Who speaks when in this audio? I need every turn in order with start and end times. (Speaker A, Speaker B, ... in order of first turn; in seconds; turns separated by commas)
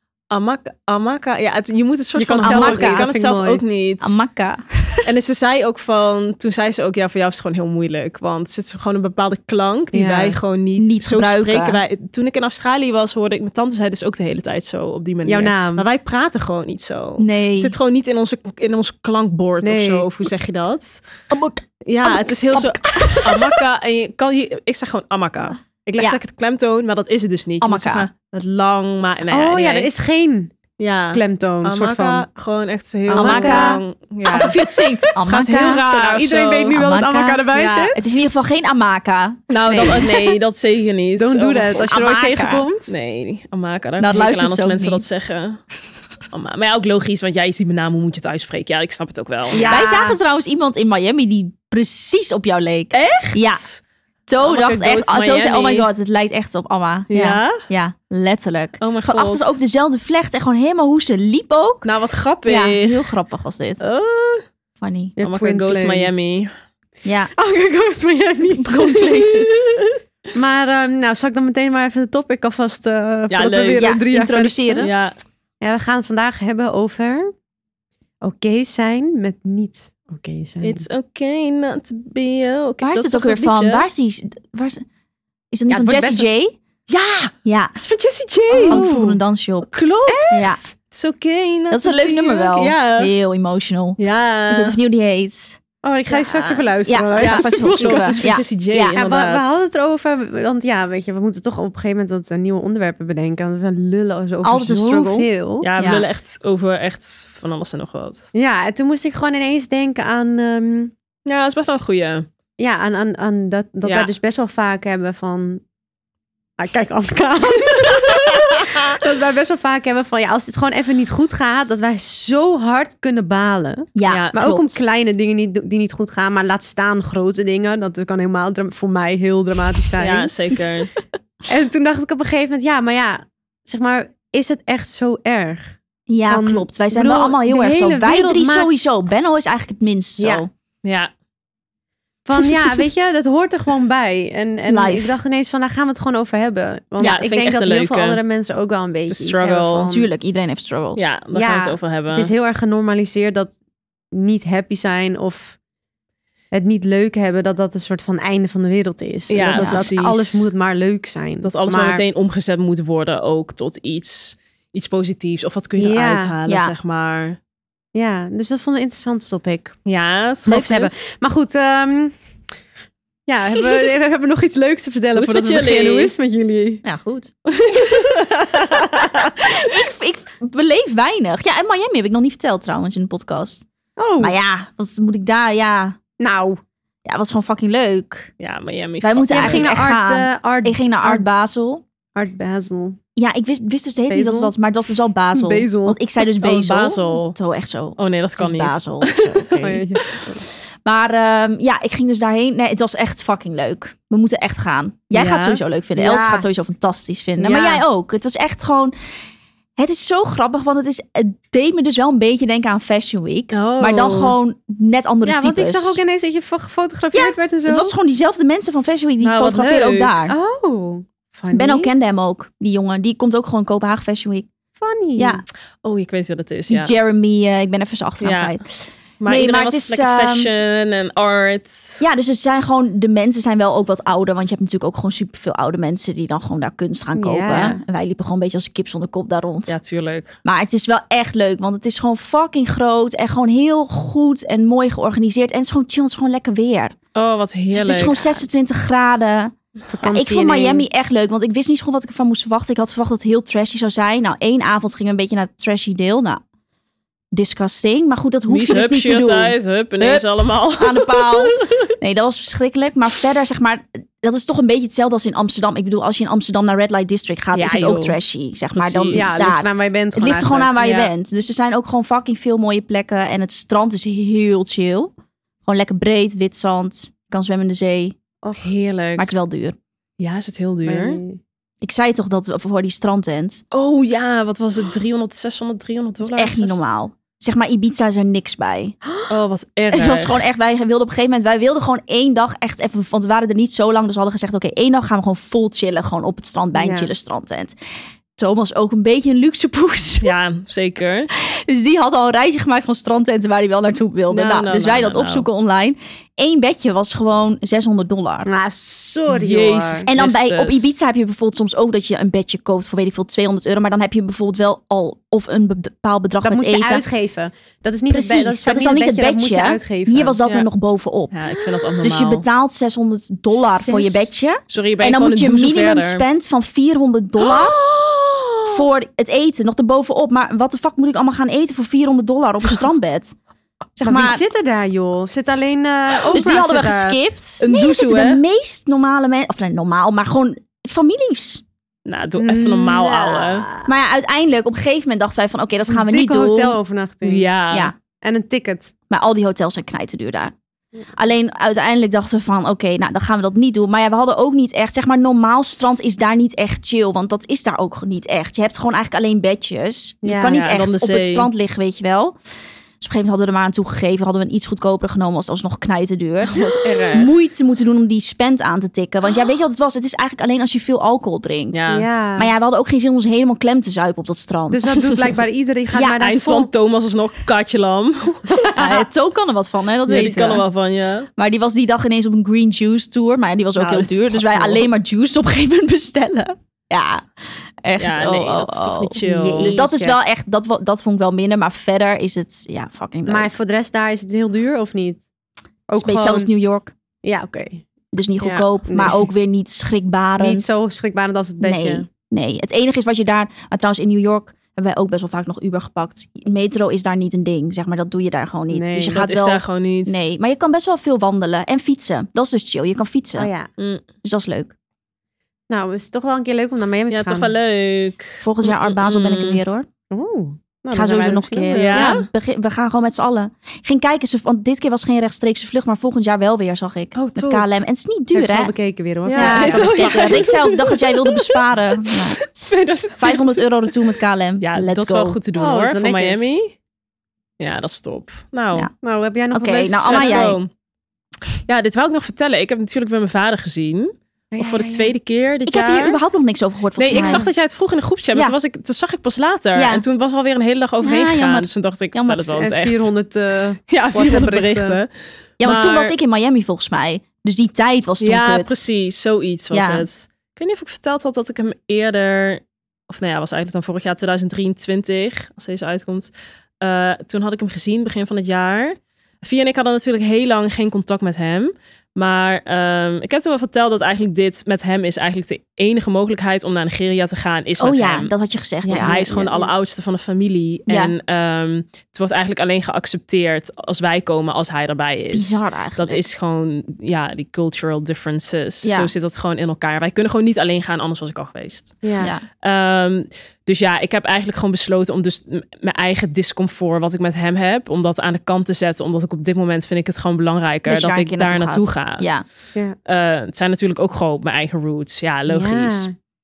Speaker A: 0.3-4.2, Speaker B: 2.2-3.6, Speaker C: 2.4-3.1, Speaker C: 4.0-5.1, Speaker A: 5.0-21.0, Speaker B: 9.9-10.4, Speaker C: 10.8-11.8, Speaker B: 15.2-15.9, Speaker C: 17.2-17.8, Speaker B: 19.6-20.1, Speaker C: 21.3-23.6, Speaker A: 21.9-29.9, Speaker C: 27.6-28.1, Speaker B: 29.3-30.5, Speaker A: 30.8-36.8, Speaker B: 31.1-32.3, Speaker C: 33.1-35.8, Speaker B: 33.1-33.8, Speaker B: 35.5-38.0, Speaker C: 36.7-40.0, Speaker A: 37.5-38.0, Speaker A: 39.5-42.0, Speaker B: 39.7-40.4, Speaker B: 41.2-43.0, Speaker C: 41.9-42.7, Speaker A: 42.9-45.6, Speaker C: 44.0-45.0, Speaker A: 46.3-49.8, Speaker B: 49.5-50.2, Speaker C: 49.6-53.6, Speaker A: 52.9-53.8, Speaker C: 54.3-61.9, Speaker A: 54.4-55.9, Speaker A: 57.1-57.6, Speaker A: 58.8-59.6, Speaker A: 61.8-63.1, Speaker C: 62.5-63.8, Speaker A: 63.8-64.5, Speaker C: 64.8-65.1, Speaker B: 65.2-66.1, Speaker A: 65.2-66.5, Speaker C: 67.0-67.3, Speaker B: 67.3-69.5, Speaker C: 68.5-69.7, Speaker A: 69.2-69.8, Speaker B: 70.3-74.9, Speaker A: 73.3-73.9, Speaker C: 73.8-74.9, Speaker A: 74.8-75.2, Speaker B: 75.6-77.3, Speaker B: 78.2-80.9, Speaker A: 80.6-83.9, Speaker C: 82.8-84.8, Speaker C: 85.5-86.5, Speaker B: 85.7-86.3, Speaker A: 86.9-89.0, Speaker C: 87.4-87.8, Speaker B: 88.5-89.2, Speaker C: 88.7-89.7, Speaker A: 89.6-93.1, Speaker B: 90.1-90.6, Speaker C: 90.3-90.6, Speaker C: 91.7-99.0, Speaker A: 94.0-94.8, Speaker B: 95.8-98.3, Speaker A: 97.2-99.5, Speaker B: 98.9-105.7, Speaker C: 104.4-106.0, Speaker A: 105.6-108.3, Speaker B: 108.3-110.9, Speaker A: 111.3-112.3, Speaker B: 112.6-115.6, Speaker A: 113.8-114.1, Speaker B: 116.6-130.3, Speaker C: 124.0-124.8, Speaker A: 124.1-124.4, Speaker A: 130.0-130.9, Speaker B: 131.5-138.7, Speaker C: 136.1-140.5, Speaker B: 140.2-140.4, Speaker A: 140.8-141.1, Speaker B: 142.3-150.1, Speaker C: 144.7-145.2, Speaker A: 147.0-148.2, Speaker A: 149.1-149.9, Speaker C: 149.9-151.1, Speaker A: 151.0-152.3, Speaker B: 151.3-153.5, Speaker B: 154.1-155.6, Speaker B: 156.5-162.0, Speaker A: 159.3-160.5, Speaker C: 159.4-159.9, Speaker A: 161.4-167.4, Speaker B: 165.8-166.3, Speaker C: 166.5-166.7, Speaker B: 167.9-169.8, Speaker A: 169.9-171.0, Speaker B: 170.4-172.2, Speaker B: 173.3-176.8, Speaker A: 175.2-176.1, Speaker C: 176.8-177.3, Speaker A: 177.5-179.4, Speaker C: 179.4-183.7, Speaker B: 184.0-184.3, Speaker C: 184.2-186.0, Speaker B: 186.2-186.6, Speaker C: 187.1-188.3, Speaker A: 188.4-189.7, Speaker C: 189.0-191.8, Speaker B: 189.3-191.3, Speaker B: 192.2-193.0, Speaker C: 193.2-199.8, Speaker B: 194.1-194.5, Speaker B: 195.3-196.0, Speaker A: 196.3-197.4, Speaker A: 198.0-200.4, Speaker B: 199.6-200.4, Speaker C: 200.8-208.9, Speaker A: 205.1-205.6, Speaker B: 205.9-206.5, Speaker B: 207.4-207.8, Speaker C: 209.8-216.0, Speaker A: 213.5-214.4, Speaker B: 215.2-217.9, Speaker C: 217.1-220.3, Speaker A: 219.2-220.2, Speaker B: 220.3-221.9, Speaker C: 221.5-224.5, Speaker B: 224.8-225.4, Speaker C: 225.2-225.4, Speaker A: 225.8-226.9, Speaker C: 226.7-230.5, Speaker A: 228.2-228.6, Speaker A: 229.2-232.0, Speaker C: 232.0-239.8, Speaker B: 237.2-237.8, Speaker A: 239.7-240.4, Speaker C: 240.4-247.0, Speaker A: 247.2-248.4, Speaker C: 247.7-256.4, Speaker B: 249.9-250.9, Speaker C: 257.3-275.1, Speaker A: 258.5-261.9, Speaker A: 267.5-268.2, Speaker A: 268.7-269.4, Speaker B: 269.1-270.7, Speaker A: 270.8-271.1, Speaker C: 275.6-278.2, Speaker A: 278.6-279.3, Speaker C: 279.2-279.8, Speaker A: 280.2-281.2, Speaker B: 280.9-281.4, Speaker C: 281.8-283.6, Speaker A: 283.7-286.8, Speaker C: 286.2-289.0, Speaker A: 289.3-290.5, Speaker C: 289.9-297.8, Speaker B: 296.7-297.1, Speaker C: 298.4-300.3, Speaker A: 300.2-301.3, Speaker C: 301.4-308.5, Speaker A: 304.3-305.5, Speaker B: 308.4-310.1, Speaker A: 309.3-310.9, Speaker C: 310.1-317.0, Speaker B: 316.4-320.4, Speaker C: 318.1-321.4, Speaker A: 321.3-322.4, Speaker C: 322.0-327.8, Speaker B: 323.7-324.3, Speaker A: 324.7-326.2, Speaker A: 327.4-328.7, Speaker C: 328.7-333.4, Speaker C: 334.0-334.4, Speaker B: 334.0-337.2, Speaker C: 336.3-341.6, Speaker A: 337.6-338.4, Speaker A: 342.1-343.7, Speaker B: 342.4-343.9, Speaker C: 343.9-346.8, Speaker B: 345.9-347.5, Speaker A: 347.2-347.9, Speaker B: 348.2-348.9, Speaker C: 349.1-350.5, Speaker C: 351.1-362.4, Speaker B: 360.2-360.6, Speaker A: 360.4-361.5, Speaker C: 363.0-371.8, Speaker A: 366.4-367.3, Speaker A: 371.7-372.1, Speaker B: 371.9-372.5, Speaker C: 372.4-374.9, Speaker B: 374.7-376.7, Speaker C: 375.9-376.2, Speaker A: 376.2-379.1, Speaker C: 378.7-380.7, Speaker A: 380.1-381.3, Speaker C: 381.4-387.2, Speaker A: 383.8-384.9, Speaker C: 387.8-393.5, Speaker A: 388.0-389.8, Speaker B: 389.2-390.2, Speaker B: 393.3-395.2, Speaker B: 395.9-396.5, Speaker C: 396.0-396.9, Speaker B: 397.2-397.8, Speaker C: 398.1-400.8, Speaker B: 398.4-399.3, Speaker B: 400.4-402.1, Speaker C: 401.6-413.5, Speaker B: 408.7-409.1, Speaker A: 409.0-410.3, Speaker B: 413.4-413.7, Speaker A: 413.8-414.0, Speaker C: 414.2-414.7, Speaker B: 415.7-417.5, Speaker A: 417.1-419.6, Speaker C: 418.4-419.9, Speaker B: 420.1-422.0, Speaker C: 420.9-428.7, Speaker A: 421.7-422.3, Speaker A: 427.1-427.7, Speaker B: 428.3-430.5, Speaker A: 429.3-436.7, Speaker C: 429.3-432.4, Speaker C: 433.2-435.4, Speaker B: 435.6-436.6, Speaker A: 437.6-438.9, Speaker B: 439.0-440.5, Speaker C: 439.5-440.6, Speaker A: 440.0-440.7, Speaker A: 441.6-446.2, Speaker B: 444.5-445.1, Speaker C: 445.7-447.5, Speaker A: 447.0-453.1, Speaker B: 447.1-447.4, Speaker C: 449.8-450.0, Speaker C: 451.0-452.6, Speaker B: 452.6-455.0, Speaker A: 453.9-455.1, Speaker C: 455.6-458.8, Speaker A: 455.6-456.1, Speaker A: 458.2-466.3, Speaker C: 459.7-460.1, Speaker A: 466.8-478.3, Speaker C: 477.8-479.5, Speaker B: 478.8-479.7, Speaker A: 478.9-502.3, Speaker C: 480.9-481.1, Speaker C: 485.3-486.2, Speaker C: 488.8-489.1, Speaker B: 492.0-492.3, Speaker C: 492.2-492.4, Speaker C: 500.9-502.4, Speaker A: 503.1-506.1, Speaker B: 505.5-506.1